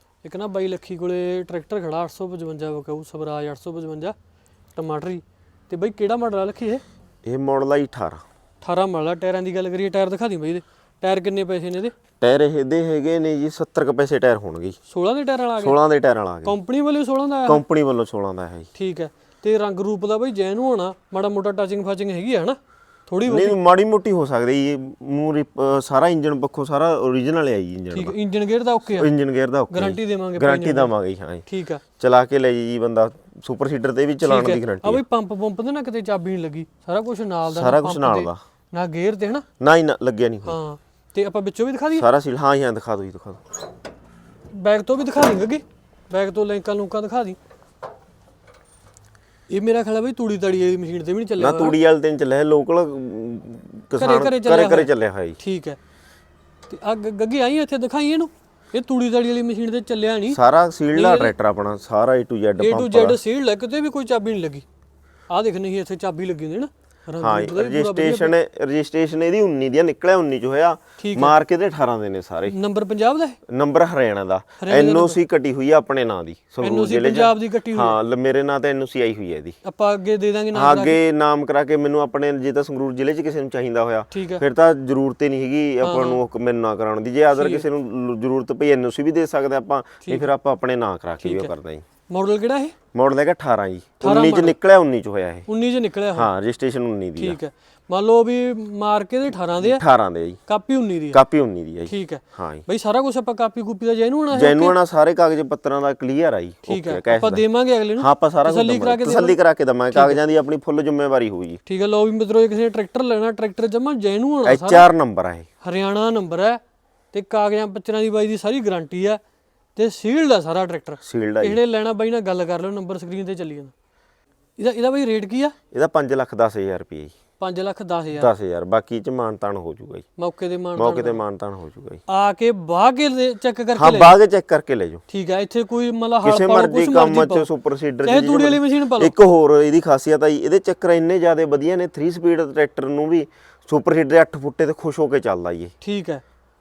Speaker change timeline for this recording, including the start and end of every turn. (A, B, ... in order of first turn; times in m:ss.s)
0:00.2-0:04.2 A
0:04.8-0:06.8 A
0:07.2-0:08.2 B
0:08.6-0:12.0 A
0:12.2-0:14.8 B
0:14.9-0:15.8 A
0:15.6-0:16.6 B
0:16.4-0:17.6 A
0:17.5-0:18.7 B
0:18.8-0:23.6 A
0:23.2-0:28.2 B
0:27.9-0:29.1 A
0:28.9-0:31.4 B
0:29.7-0:30.9 A
0:31.5-0:31.8 A
0:32.0-0:35.0 B
0:34.2-0:39.4 A
0:37.5-0:38.4 B
0:39.6-0:40.6 B
0:40.4-0:42.1 A
0:42.0-0:43.4 B
0:44.5-0:47.4 A
0:49.5-0:51.8 A
0:51.4-0:55.4 B
0:54.0-0:55.8 A
0:56.7-1:00.4 A
1:00.3-1:03.2 B
1:00.9-1:01.3 A
1:02.6-1:04.6 A
1:05.3-1:08.3 A
1:07.2-1:12.6 B
1:11.0-1:11.4 A
1:12.5-1:13.4 A
1:13.5-1:19.6 B
1:14.6-1:15.2 A
1:16.6-1:18.0 A
1:19.6-1:21.0 A
1:20.5-1:31.8 B
1:24.1-1:24.4 A
1:25.8-1:26.2 A
1:27.3-1:27.6 A
1:31.2-1:31.5 A
1:32.1-1:32.8 A
1:32.9-1:35.5 B
1:34.0-1:34.6 A
1:35.5-1:36.3 A
1:36.1-1:37.4 B
1:37.2-1:39.8 A
1:39.6-1:40.4 B
1:40.5-1:41.2 A
1:41.1-1:42.6 B
1:41.9-1:44.8 A
1:44.3-1:51.6 B
1:46.7-1:49.4 A
1:49.9-1:50.2 A
1:51.7-1:54.9 A
1:54.4-1:55.5 B
1:55.6-1:56.6 A
1:57.1-1:59.2 A
1:59.8-2:03.7 A
2:01.0-2:01.6 B
2:04.6-2:05.6 A
2:05.7-2:07.1 B
2:07.4-2:08.3 A
2:08.1-2:10.1 B
2:10.2-2:11.2 A
2:10.8-2:12.0 B
2:12.1-2:14.2 A
2:13.8-2:15.0 B
2:15.1-2:17.5 A
2:16.2-2:25.7 B
2:18.0-2:19.1 A
2:25.8-2:26.2 A